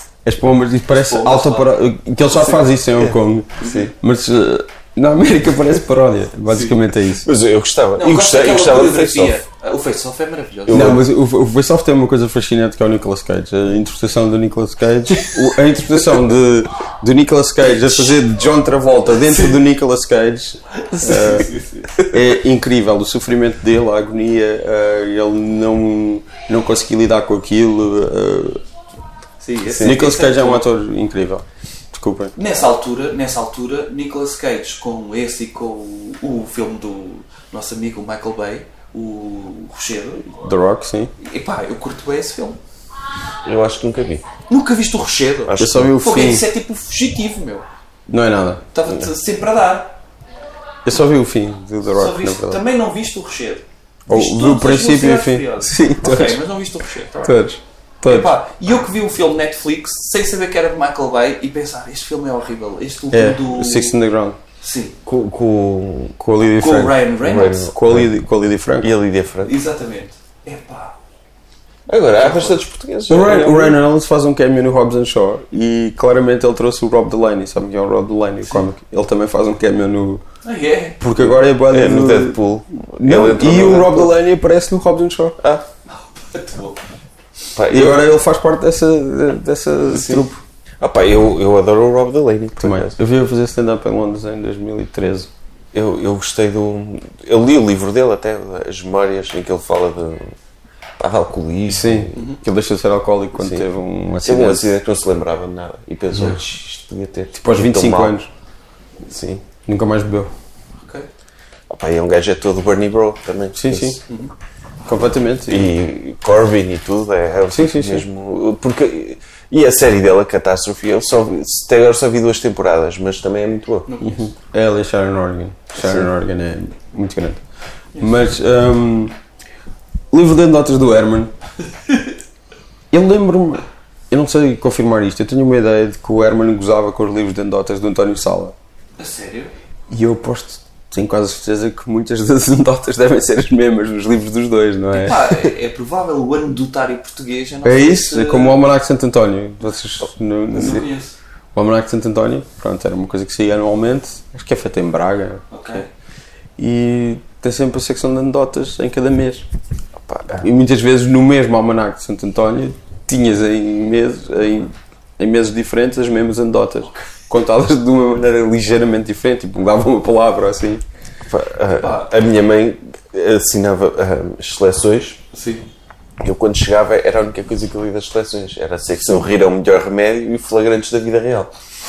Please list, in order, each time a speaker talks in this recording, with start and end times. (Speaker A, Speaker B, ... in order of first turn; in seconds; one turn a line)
Speaker A: 0.2-7.3
Speaker B: 0.9-1.8
Speaker C: 3.6-3.9
Speaker C: 7.2-9.4
Speaker B: 8.0-11.0
Speaker C: 10.7-11.0
Speaker A: 10.7-21.5
Speaker B: 17.7-18.1
Speaker B: 19.3-19.6
Speaker B: 20.8-22.0
Speaker A: 22.1-28.6
Speaker B: 29.4-30.6
Speaker C: 29.7-30.0
Speaker A: 29.8-32.4
Speaker B: 32.4-40.4
Speaker A: 40.4-41.1
Speaker B: 41.2-42.6
Speaker C: 43.5-44.2
Speaker B: 44.5-47.6
Speaker C: 45.5-45.9
Speaker A: 45.6-46.5
Speaker A: 48.1-48.6
Speaker B: 48.7-49.9
Speaker A: 50.9-52.6
Speaker B: 51.9-57.4
Speaker A: 54.1-56.4
Speaker A: 57.2-58.4
Speaker B: 58.1-64.0
Speaker A: 63.1-64.4
Speaker B: 64.6-65.0
Speaker C: 65.0-66.2
Speaker A: 66.2-67.0
Speaker B: 66.6-67.7
Speaker C: 67.2-68.1
Speaker A: 67.7-68.9
Speaker C: 68.8-69.5
Speaker B: 69.5-71.0
Speaker C: 71.9-73.8
Speaker B: 72.2-72.6
Speaker A: 73.1-80.2
Speaker B: 80.4-81.0
Speaker A: 81.0-82.4
Speaker C: 81.7-84.1
Speaker A: 83.0-85.4
Speaker B: 85.9-86.8
Speaker C: 87.6-88.1
Speaker A: 87.7-90.4
Speaker C: 89.9-90.3
Speaker C: 90.8-93.0
Speaker A: 92.6-95.3
Speaker C: 95.7-100.3
Speaker C: 101.0-102.2
Speaker A: 101.7-104.7
Speaker B: 102.2-102.4
Speaker C: 103.4-103.7
Speaker C: 104.2-108.1
Speaker A: 107.4-108.3
Speaker C: 109.1-109.5
Speaker A: 109.7-110.3
Speaker B: 110.8-111.1
Speaker C: 111.7-114.0
Speaker A: 113.5-114.0
Speaker A: 114.9-115.8
Speaker C: 115.5-123.9
Speaker A: 117.5-118.1
Speaker B: 123.9-124.3
Speaker A: 124.0-127.4
Speaker C: 125.8-126.1
Speaker A: 128.0-129.2
Speaker A: 130.1-131.3
Speaker A: 132.9-138.6
Speaker B: 139.0-139.5
Speaker A: 139.9-145.3
Speaker B: 144.9-148.6
Speaker A: 147.6-150.9
Speaker B: 150.5-151.2
Speaker A: 151.5-155.8
Speaker B: 155.5-155.9
Speaker A: 156.6-159.5
Speaker C: 160.1-160.5
Speaker A: 160.3-170.8
Speaker C: 171.3-175.2
Speaker B: 171.7-172.1
Speaker B: 175.3-175.7
Speaker C: 176.2-181.5